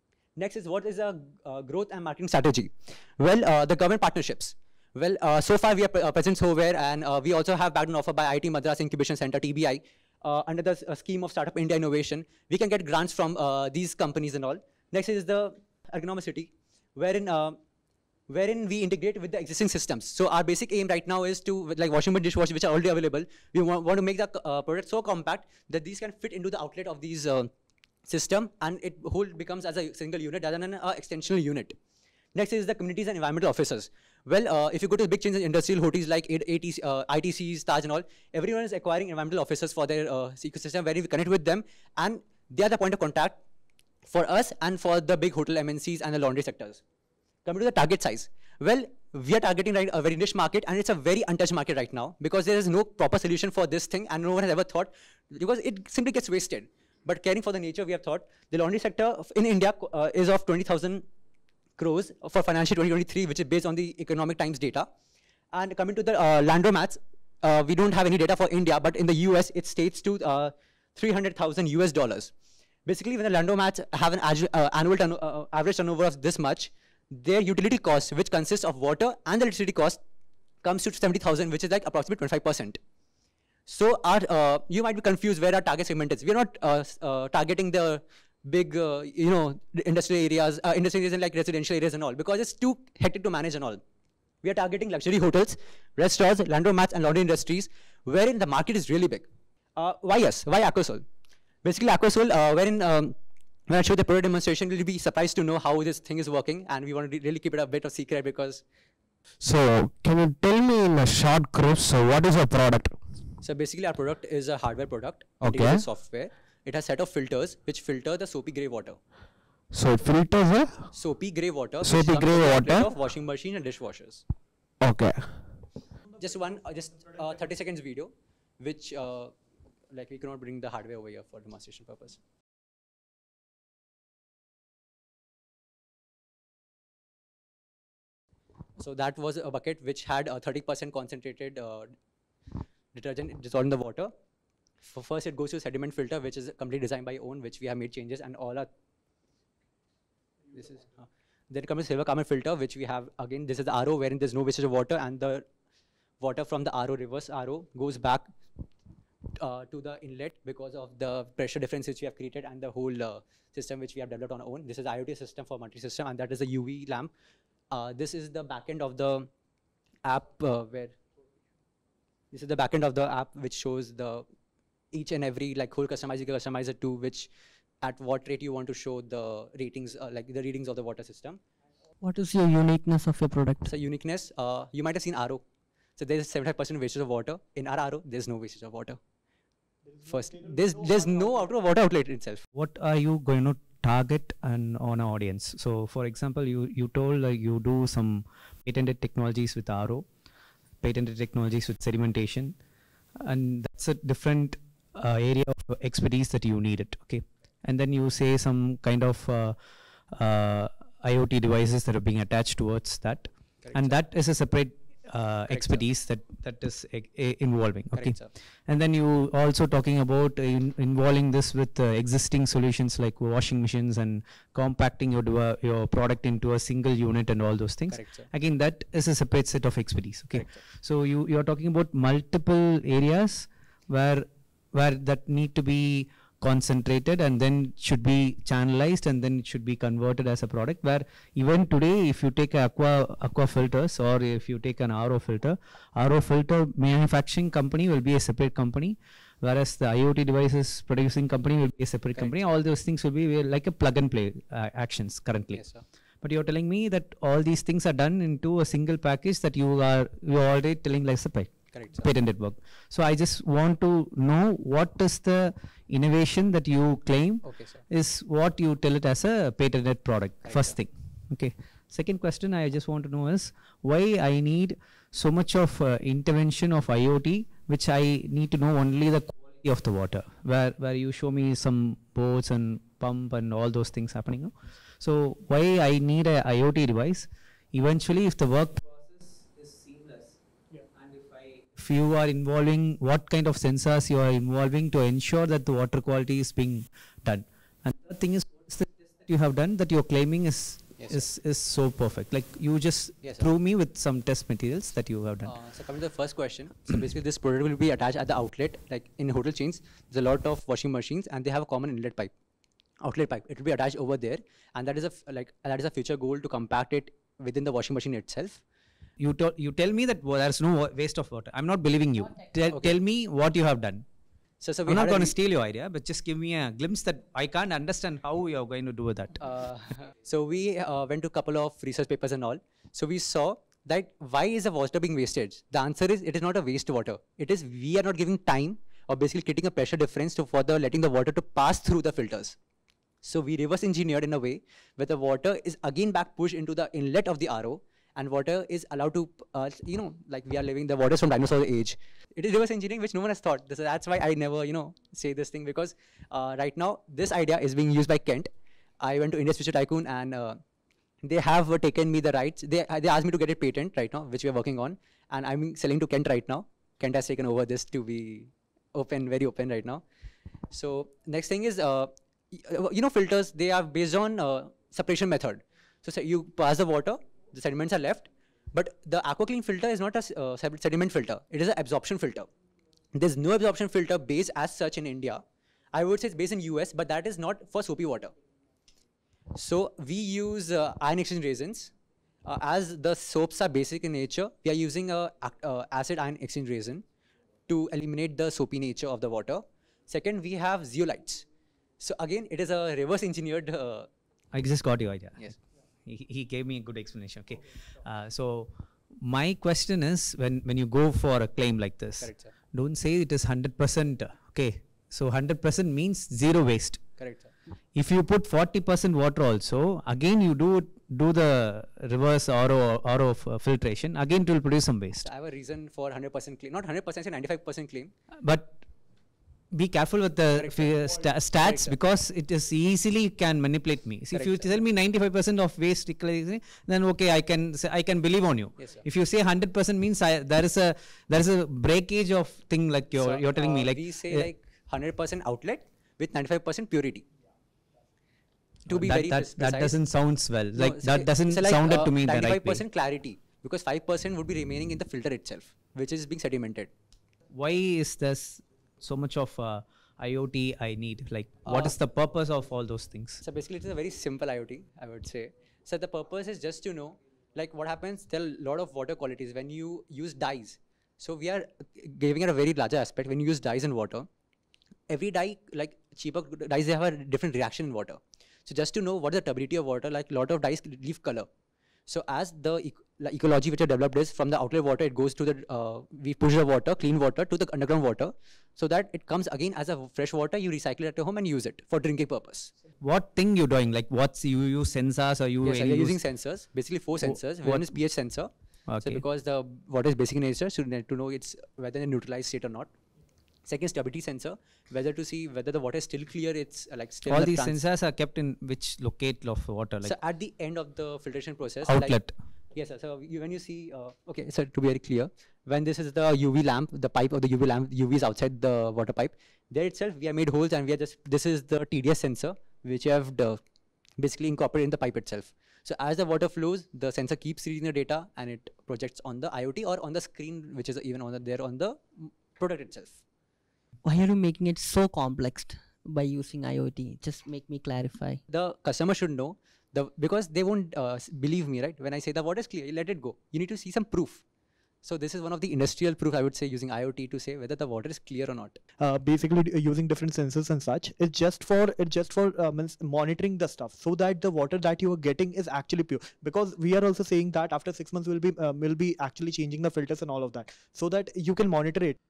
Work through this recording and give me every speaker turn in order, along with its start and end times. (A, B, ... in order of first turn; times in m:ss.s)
0:00.4-0:17.6 A
0:18.3-0:27.5 A
0:28.1-0:31.8 A
0:32.3-0:43.4 A
0:44.0-0:46.8 A
0:47.4-1:01.0 A
1:01.8-1:04.9 A
1:05.5-1:12.3 A
1:12.8-1:20.0 A
1:20.6-1:22.8 A
1:23.7-1:33.8 A
1:34.4-1:41.0 A
1:41.6-1:43.1 A
1:43.7-1:48.6 A
1:49.4-1:53.0 B
1:53.4-1:59.0 A
1:55.4-1:55.8 B
1:59.7-2:00.9 B
2:00.9-2:04.2 A
2:01.8-2:02.9 B
2:04.8-2:05.5 B
2:06.2-2:09.3 A
2:09.9-2:12.2 A
2:18.8-2:21.9 A
2:22.9-2:24.1 A
2:24.8-2:28.7 A
2:30.5-2:35.4 A
2:36.2-2:38.3 A
2:39.4-2:47.1 A
2:47.7-2:49.3 A
2:50.0-2:51.0 A
2:52.3-2:54.2 A
2:54.9-2:57.3 A
2:57.8-3:01.4 A
3:02.0-3:03.7 C
3:03.6-3:05.4 A
3:06.0-3:09.0 A
3:09.9-3:10.2 D
3:10.1-3:12.4 A
3:12.5-3:20.0 E
3:20.8-3:22.5 E
3:23.2-3:29.6 E
3:30.1-3:38.2 E
3:33.6-3:34.0 A
3:35.5-3:35.8 A
3:37.9-3:38.3 A
3:38.7-4:15.6 E
3:47.9-3:48.3 A
3:50.3-3:50.6 A
4:12.2-4:12.4 A
4:15.5-4:15.8 A
4:16.2-4:50.4 E
4:21.7-4:22.1 A
4:27.4-4:27.8 A
4:30.4-4:30.8 A
4:50.9-5:05.5 E
5:01.0-5:01.3 A
5:03.2-5:03.5 A
5:05.4-5:12.3 A
5:13.0-5:18.6 A
5:19.2-5:24.0 E
5:24.6-5:25.4 A
5:24.9-5:29.4 E
5:29.4-5:42.6 A
5:43.2-5:58.5 A
5:59.0-6:00.6 A
6:01.2-6:10.0 A
6:10.7-6:22.5 A
6:23.1-6:25.4 A
6:25.9-6:28.3 A
6:29.5-6:31.9 A
6:32.4-6:37.0 A
6:37.7-6:41.4 A
6:42.0-6:44.1 A
6:44.5-6:57.0 E
6:52.2-6:52.5 A
6:57.2-6:57.5 A
6:57.9-7:05.2 E
7:05.2-7:08.1 A
7:08.4-7:08.8 E
7:09.7-7:24.5 E
7:10.6-7:12.0 A
7:14.3-7:14.8 A
7:23.1-7:27.2 A
7:28.9-7:32.8 E
7:28.9-7:29.9 A
7:30.7-7:36.9 A
7:37.5-7:43.4 E
7:41.6-7:41.9 A
7:43.4-7:54.3 A
7:55.1-8:01.5 A
8:02.1-8:12.7 A
8:13.0-8:16.2 E
8:15.6-8:18.5 A
8:17.2-8:18.0 E
8:18.9-8:19.2 E
8:19.0-8:22.9 A
8:23.6-8:27.8 A
8:27.3-8:30.1 E
8:30.0-8:32.2 A
8:31.8-8:32.3 E
8:32.7-8:43.6 A
8:44.2-8:53.2 A
8:54.0-8:58.4 C
8:58.5-9:04.4 A
9:05.0-9:08.8 A
9:09.0-9:22.2 D